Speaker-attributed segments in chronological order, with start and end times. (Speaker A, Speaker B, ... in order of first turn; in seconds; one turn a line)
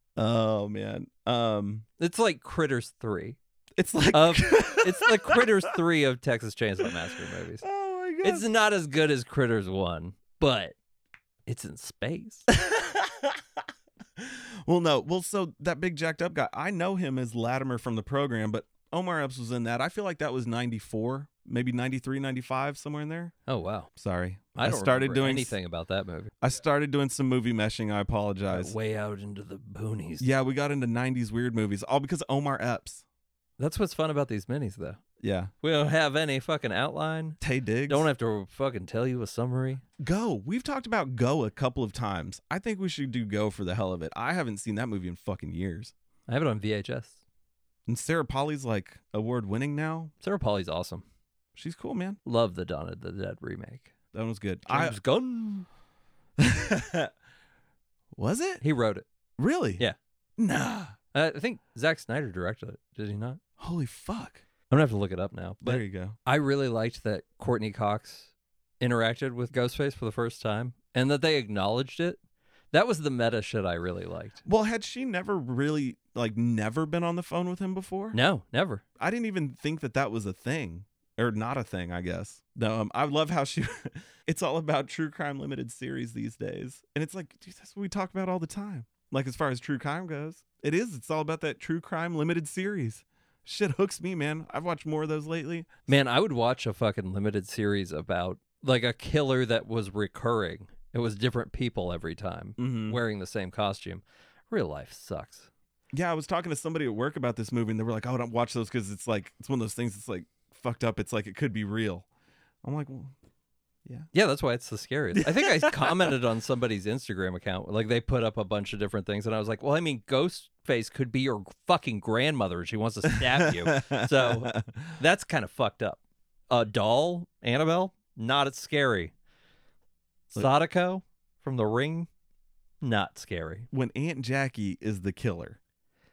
Speaker A: 0.2-1.9
Speaker B: 2.0-3.4
Speaker A: 3.8-5.5
Speaker B: 4.1-7.7
Speaker A: 7.6-8.5
Speaker B: 8.2-10.8
Speaker B: 11.5-12.5
Speaker A: 12.5-13.6
Speaker A: 14.2-23.3
Speaker B: 23.5-23.9
Speaker A: 23.9-25.6
Speaker B: 24.6-26.3
Speaker A: 26.4-28.8
Speaker B: 28.5-30.3
Speaker A: 30.2-33.0
Speaker B: 33.6-35.0
Speaker A: 35.2-35.5
Speaker B: 35.6-39.8
Speaker A: 37.4-38.1
Speaker A: 40.0-45.9
Speaker B: 46.3-47.2
Speaker A: 47.9-50.1
Speaker B: 50.2-51.0
Speaker A: 51.5-52.2
Speaker B: 52.2-53.9
Speaker A: 54.1-55.0
Speaker B: 54.7-55.7
Speaker A: 56.4-57.1
Speaker A: 58.1-58.6
Speaker B: 58.6-59.1
Speaker A: 59.4-59.8
Speaker A: 60.4-61.0
Speaker B: 61.1-63.4
Speaker A: 63.6-64.4
Speaker B: 64.7-72.2
Speaker A: 65.6-66.2
Speaker B: 72.7-74.4
Speaker A: 74.5-78.2
Speaker B: 78.1-78.8
Speaker A: 79.0-95.7
Speaker B: 95.9-105.5
Speaker A: 102.6-103.0
Speaker A: 105.9-112.1
Speaker A: 112.6-113.2
Speaker B: 114.1-129.1
Speaker A: 115.2-116.1
Speaker A: 123.4-125.0
Speaker B: 130.3-132.1
Speaker B: 132.8-133.7
Speaker A: 133.7-135.6